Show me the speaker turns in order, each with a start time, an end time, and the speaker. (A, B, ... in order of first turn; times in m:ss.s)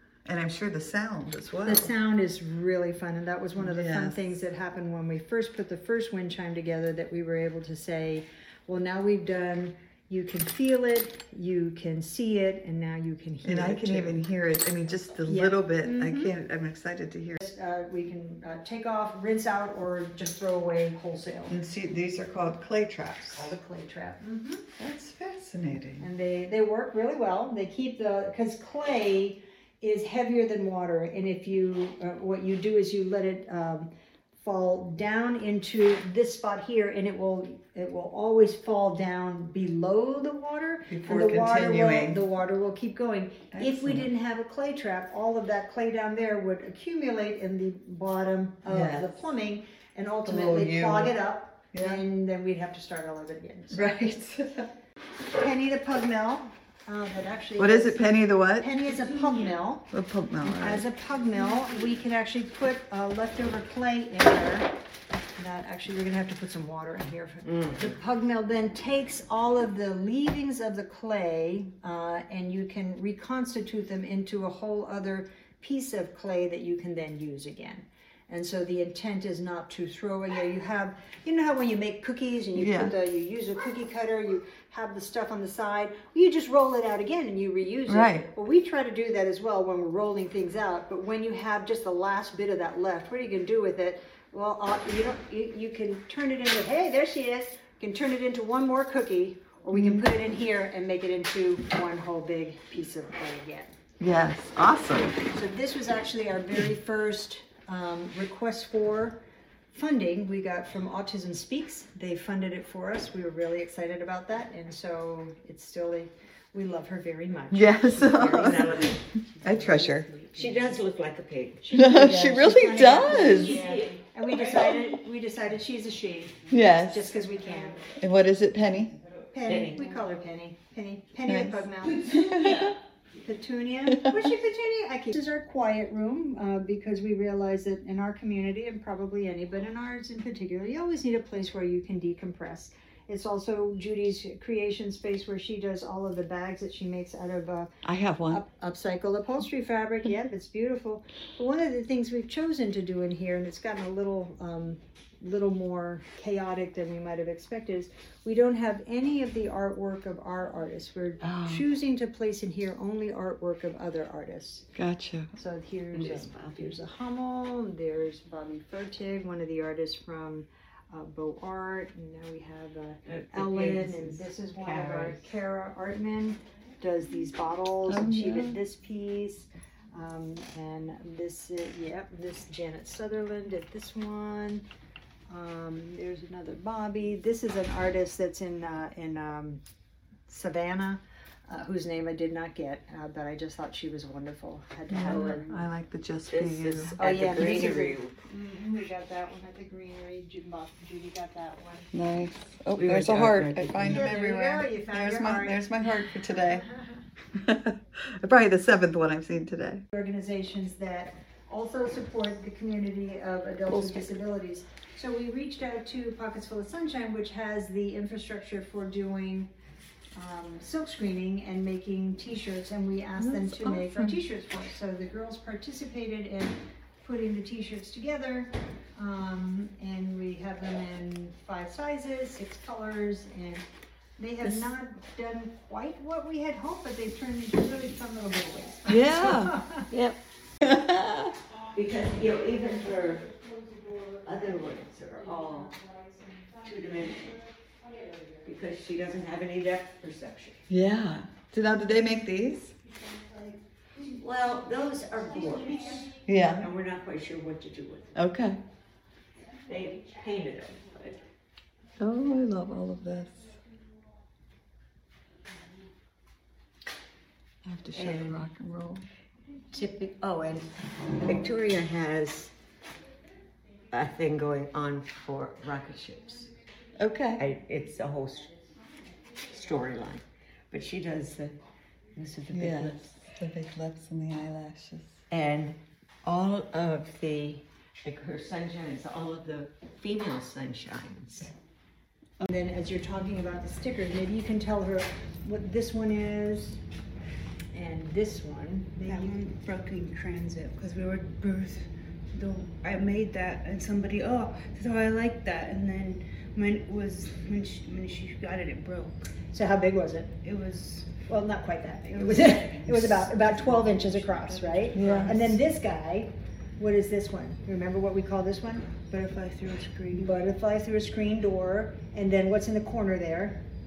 0:00.2-0:01.9 A
0:01.6-0:14.2 B
0:03.6-0:04.4 A
0:13.4-0:17.4 A
0:15.3-0:16.3 B
0:17.4-0:21.6 B
0:21.5-0:23.5 A
0:23.3-0:24.6 B
0:24.8-0:26.0 A
0:26.0-0:53.8 B
0:40.9-0:42.2 A
0:43.5-0:44.0 A
0:48.7-0:49.1 A
0:50.2-0:51.1 A
0:51.7-0:52.0 A
0:53.7-0:54.7 A
0:55.3-0:59.9 B
0:57.6-0:58.7 A
0:58.9-0:59.6 C
0:59.9-1:00.8 A
1:00.4-1:04.7 B
1:05.4-1:43.8 B
1:07.5-1:07.8 D
1:22.6-1:22.9 A
1:27.9-1:28.3 A
1:39.7-1:40.0 A
1:44.0-1:45.2 A
1:45.3-1:49.2 B
1:49.7-2:00.8 B
1:57.5-2:00.0 A
1:58.2-1:59.5 D
2:00.3-2:01.6 D
2:01.6-2:07.8 B
2:01.7-2:03.6 A
2:03.2-2:04.7 D
2:06.5-2:07.1 A
2:08.0-2:08.9 A
2:09.3-2:12.3 B
2:09.4-2:09.9 D
2:11.2-2:12.7 A
2:13.2-2:27.7 B
2:13.9-2:14.2 A
2:27.8-2:28.4 A
2:28.3-2:44.7 B
2:41.2-2:41.6 A
2:44.8-2:45.3 A
2:45.4-3:04.6 B
2:45.9-2:46.8 D
2:53.0-2:55.2 D
2:57.9-2:58.6 A
3:05.3-3:09.6 B
3:10.3-3:15.6 B
3:14.9-3:17.0 A
3:16.3-3:18.2 D
3:17.0-3:21.9 B
3:21.9-3:26.6 A
3:22.7-3:24.0 D
3:23.8-3:25.8 B
3:27.3-3:29.8 A
3:29.9-3:39.5 B
3:33.7-3:34.2 A
3:40.1-3:53.6 B
3:43.2-3:44.2 A
3:54.2-3:59.8 B
3:58.9-3:59.6 A
3:59.9-4:00.2 D
4:00.6-4:01.2 A
4:01.7-4:03.4 D
4:04.1-4:05.8 D
4:06.6-4:07.4 D
4:08.4-4:10.7 D
4:10.7-4:12.7 A
4:14.0-4:18.1 D
4:16.2-4:16.7 A
4:18.1-4:18.6 A
4:19.6-4:21.2 D
4:22.0-4:23.5 A
4:27.6-4:29.0 A
4:27.9-4:28.4 D
4:29.7-4:32.5 D
4:33.9-4:36.5 D
4:37.0-4:37.4 A
4:37.4-4:38.5 D
4:39.5-4:41.6 D
4:42.1-4:43.1 D
4:42.5-4:45.2 A
4:45.3-4:51.5 D
4:52.4-4:56.8 B
4:57.7-4:59.4 B
4:59.1-5:09.3 C
5:09.5-5:10.3 B
5:10.4-5:11.2 C
5:11.3-5:19.0 B
5:12.1-5:15.6 C
5:14.9-5:15.4 A
5:19.1-5:20.4 C
5:20.1-5:23.6 B